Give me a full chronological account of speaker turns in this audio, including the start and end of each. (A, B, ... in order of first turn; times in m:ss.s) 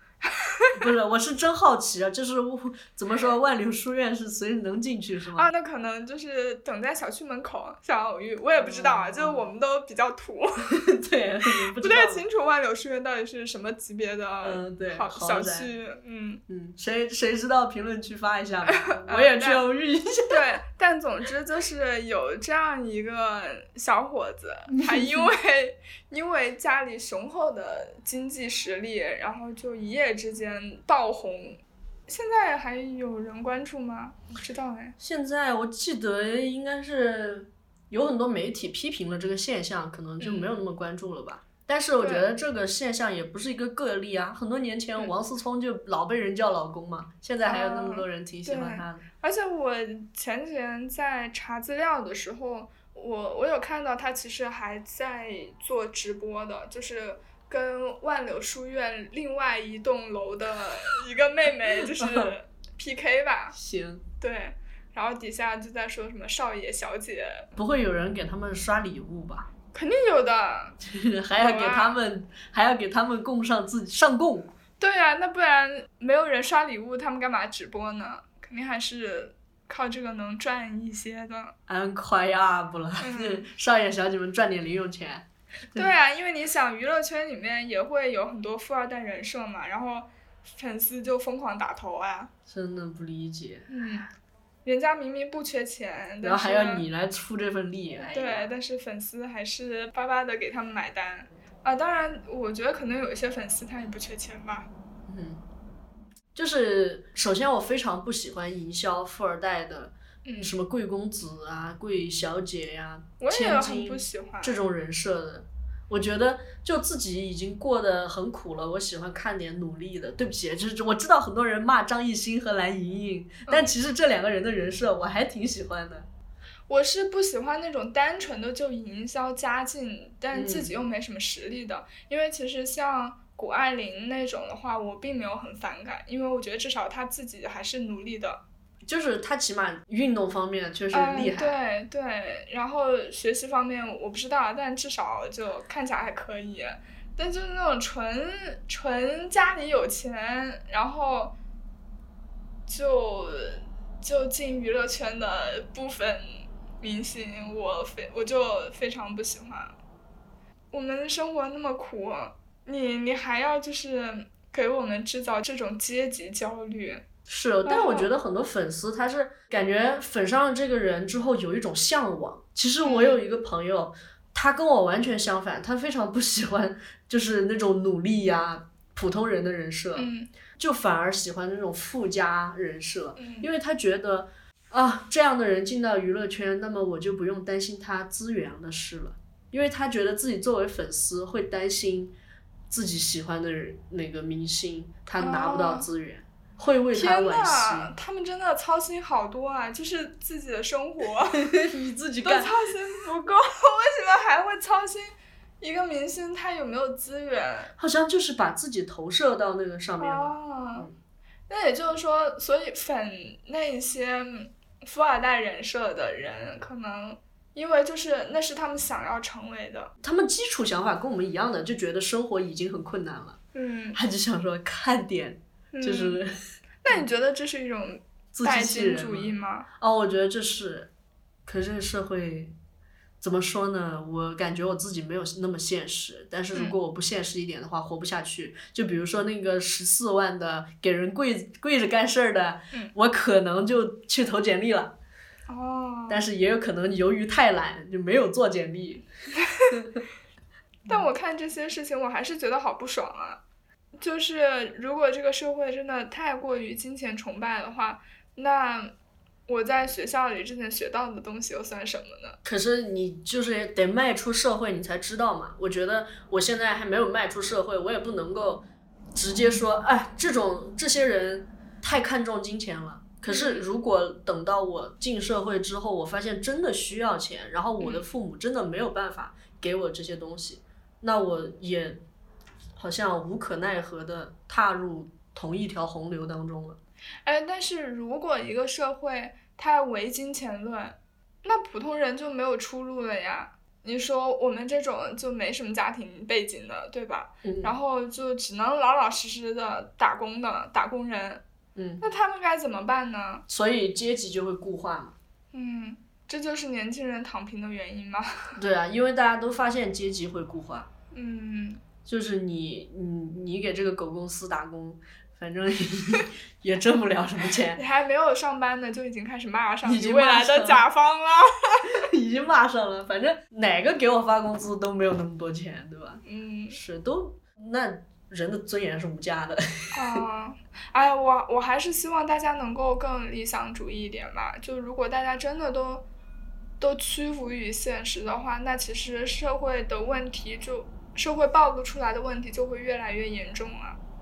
0:00.3-0:00.7 A
0:00.7-0:05.5 B
0:05.4-0:10.8 A
0:08.6-0:09.5 B
0:10.7-0:12.2 B
0:11.5-0:16.4 A
0:14.4-0:15.7 B
0:16.5-0:20.4 B
0:18.8-0:19.6 A
0:20.3-0:34.9 A
0:24.7-0:25.3 B
0:35.0-0:49.0 B
0:40.2-0:40.5 A
0:42.0-0:42.3 A
0:47.4-1:03.6 A
1:01.8-1:02.3 B
1:03.5-1:04.0 B
1:04.2-1:07.5 A
1:07.6-1:09.5 B
1:09.7-1:10.8 A
1:10.8-1:14.5 B
1:11.4-1:12.0 A
1:14.8-1:21.5 A
1:21.7-1:25.9 B
1:23.0-1:23.5 A
1:25.7-1:32.3 A
1:32.5-1:33.7 B
1:33.7-1:34.1 A
1:34.6-1:36.8 A
1:36.2-1:38.5 B
1:38.1-1:44.7 A
1:45.1-1:45.4 B
1:46.3-2:06.1 B
1:50.2-1:50.5 A
1:53.2-1:54.6 A
2:06.7-2:18.4 A
2:10.3-2:10.7 B
2:18.8-2:21.6 B
2:20.9-2:31.3 A
2:32.7-2:39.7 A
2:40.7-2:47.0 A
2:47.3-3:12.1 B
2:47.6-2:48.1 A
2:52.8-2:53.2 A
3:00.0-3:00.3 A
3:03.2-3:03.5 A
3:12.7-3:17.9 B
3:15.2-3:15.9 A
3:16.9-3:21.5 A
3:21.3-3:22.5 B
3:22.2-3:27.7 A
3:27.8-3:30.9 B
3:30.0-3:30.9 A
3:31.5-3:39.9 A
3:40.0-3:43.4 B
3:43.5-3:44.0 A
3:43.9-3:46.3 B
3:45.7-3:46.2 A
3:46.8-3:49.7 A
3:48.3-3:50.9 B
3:51.4-3:52.5 B
3:53.2-4:04.9 B
4:05.5-4:06.2 A
4:06.1-4:09.0 B
4:09.4-4:09.7 A
4:09.7-4:10.0 B
4:10.9-4:13.4 A
4:14.0-4:18.9 A
4:19.5-4:22.4 A
4:22.4-4:42.0 B
4:33.2-4:33.7 A
4:37.8-4:38.0 A
4:42.8-4:46.8 B
4:47.2-5:01.4 A
4:57.4-4:57.7 B
5:01.7-5:02.0 B
5:02.0-5:03.4 A
5:03.5-5:05.1 B
5:05.5-5:08.6 A
5:08.6-5:10.9 B
5:11.1-5:11.8 A
5:12.0-5:17.8 B
5:17.7-5:21.9 A
5:19.8-5:20.8 B
5:22.0-5:30.2 B
5:26.2-5:26.8 A
5:29.9-5:36.0 A
5:36.8-5:44.0 A